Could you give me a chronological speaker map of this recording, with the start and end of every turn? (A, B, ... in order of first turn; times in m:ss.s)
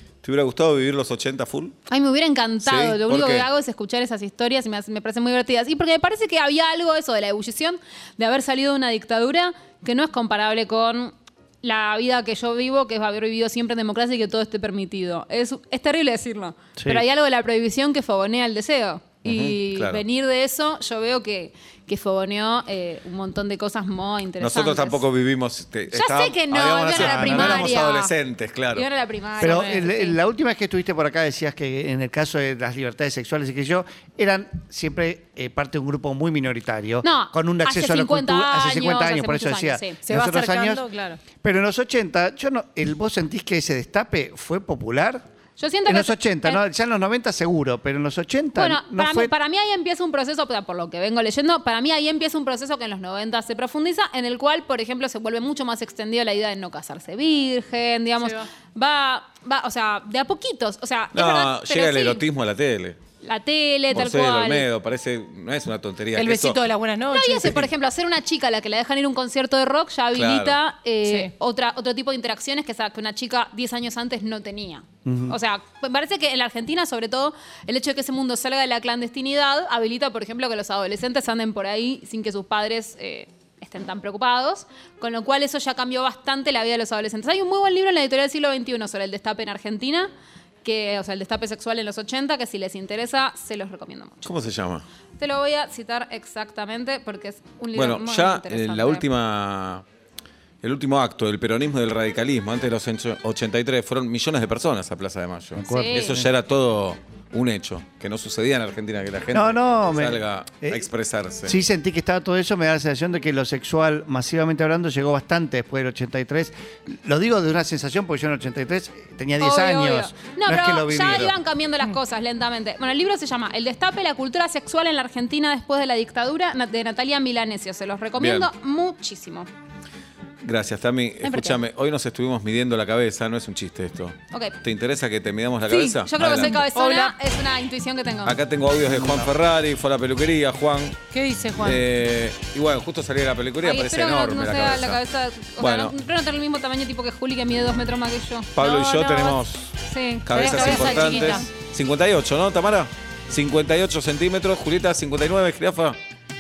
0:00.2-0:01.8 A
0:01.9-0:25.0 B
0:02.6-0:03.5 A
0:16.8-0:17.0 C
0:19.2-0:20.0 A
0:24.4-0:28.8 A
0:25.9-0:28.1 B
0:26.9-0:27.8 C
0:28.7-0:30.2 B
0:29.4-0:40.8 C
0:29.4-0:29.8 D
0:37.0-0:40.0 B
0:40.0-0:41.2 D
0:41.4-0:45.2 C
0:45.6-0:46.6 B
0:45.8-0:49.3 C
0:48.5-1:02.2 B
1:01.1-1:03.0 A
1:03.2-1:04.7 B
1:03.9-1:06.6 A
1:06.1-1:07.7 D
1:07.1-1:30.1 B
1:10.1-1:10.6 A
1:11.0-1:11.3 D
1:15.0-1:15.3 C
1:30.6-1:34.3 B
1:34.2-1:34.8 A
1:35.2-1:39.0 B
1:37.7-1:39.8 A
1:40.6-1:51.6 A
1:45.6-1:46.2 C
1:45.6-1:46.2 B
1:49.3-1:50.8 C
1:51.4-2:01.3 C
1:59.4-2:09.5 B
2:01.0-2:01.3 A
2:08.2-2:08.5 A
2:10.4-2:16.6 A
2:11.2-2:11.5 D
2:14.3-2:14.6 B
2:15.7-2:18.4 B
2:16.4-2:17.2 D
2:18.2-2:21.0 A
2:18.8-2:19.3 C
2:21.1-2:21.8 D
2:21.6-2:25.0 A
2:23.6-2:31.4 B
2:25.6-2:25.9 A
2:28.5-2:36.0 A
2:30.3-2:31.4 D